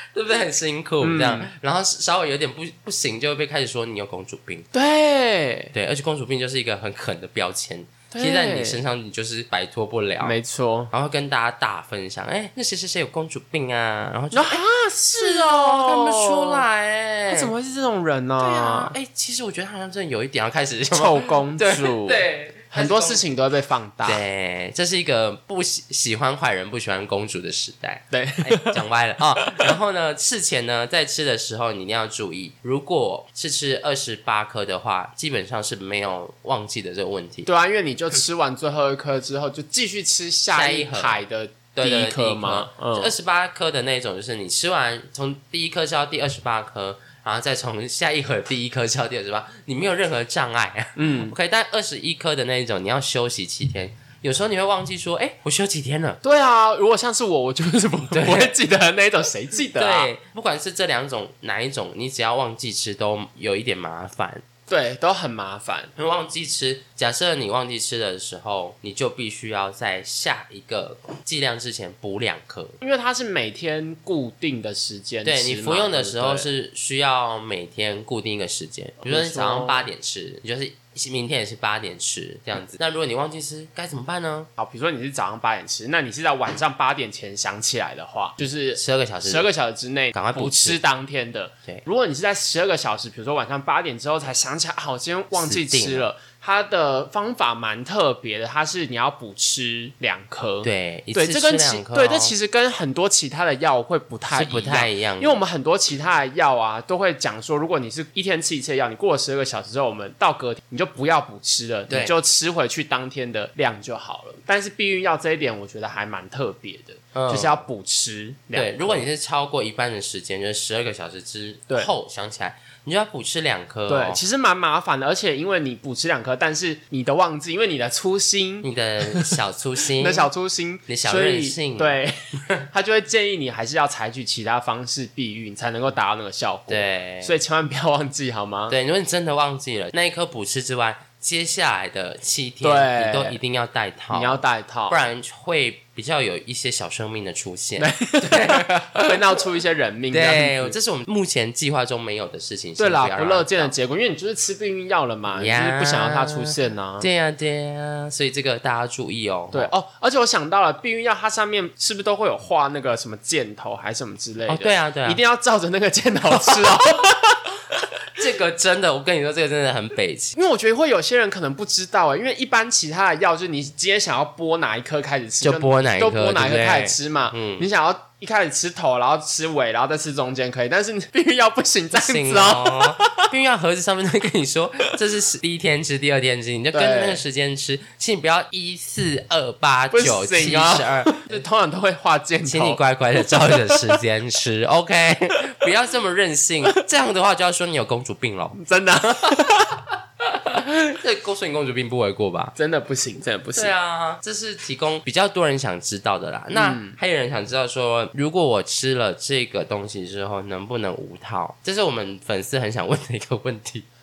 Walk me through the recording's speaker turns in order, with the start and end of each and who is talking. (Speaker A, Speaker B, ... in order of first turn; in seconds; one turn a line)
Speaker A: 0.1-4.7
Speaker B: 1.0-1.5
Speaker B: 4.7-5.7
Speaker A: 5.7-10.4
Speaker B: 8.1-8.8
Speaker B: 10.2-10.9
Speaker A: 10.9-14.6
Speaker B: 14.3-16.7
Speaker A: 15.1-17.5
Speaker B: 17.3-18.9
Speaker A: 18.4-23.2
Speaker B: 20.9-24.2
Speaker A: 24.1-37.5
Speaker B: 28.1-28.8
Speaker B: 29.4-29.8
Speaker B: 37.5-43.1
Speaker A: 40.5-41.2
Speaker A: 41.7-56.2
Speaker B: 51.0-51.4
Speaker B: 56.2-60.1
Speaker A: 58.1-58.5
Speaker A: 59.8-64.5
Speaker B: 64.7-65.9
Speaker A: 66.0-72.8
Speaker B: 72.8-76.5
Speaker A: 75.2-84.5
Speaker B: 79.0-79.9
Speaker B: 84.6-119.1
Speaker A: 88.8-89.5
Speaker A: 90.1-90.8
Speaker A: 95.3-96.1
Speaker A: 100.6-102.3
Speaker A: 104.3-105.4
Speaker A: 117.1-117.6
Speaker A: 118.5-124.2
Speaker B: 123.9-132.2
Speaker A: 128.6-130.3
Speaker A: 130.9-132.0
Speaker B: 132.7-138.8
Speaker A: 136.7-137.3
Speaker A: 138.7-149.4
Speaker B: 142.6-143.4
Speaker B: 144.1-145.0
Speaker B: 147.8-150.8
Speaker A: 150.1-153.7
Speaker B: 152.8-157.1
Speaker A: 155.3-159.7
Speaker B: 159.5-167.9
Speaker A: 164.5-165.2
Speaker A: 168.1-170.4
Speaker B: 170.3-183.3
Speaker A: 175.4-177.7
Speaker A: 181.9-191.4
Speaker B: 186.7-187.2
Speaker B: 189.9-194.0
Speaker A: 192.4-199.7
Speaker B: 198.6-199.8
Speaker A: 200.3-202.6
Speaker B: 202.6-203.7
Speaker A: 203.6-213.9
Speaker B: 206.5-207.0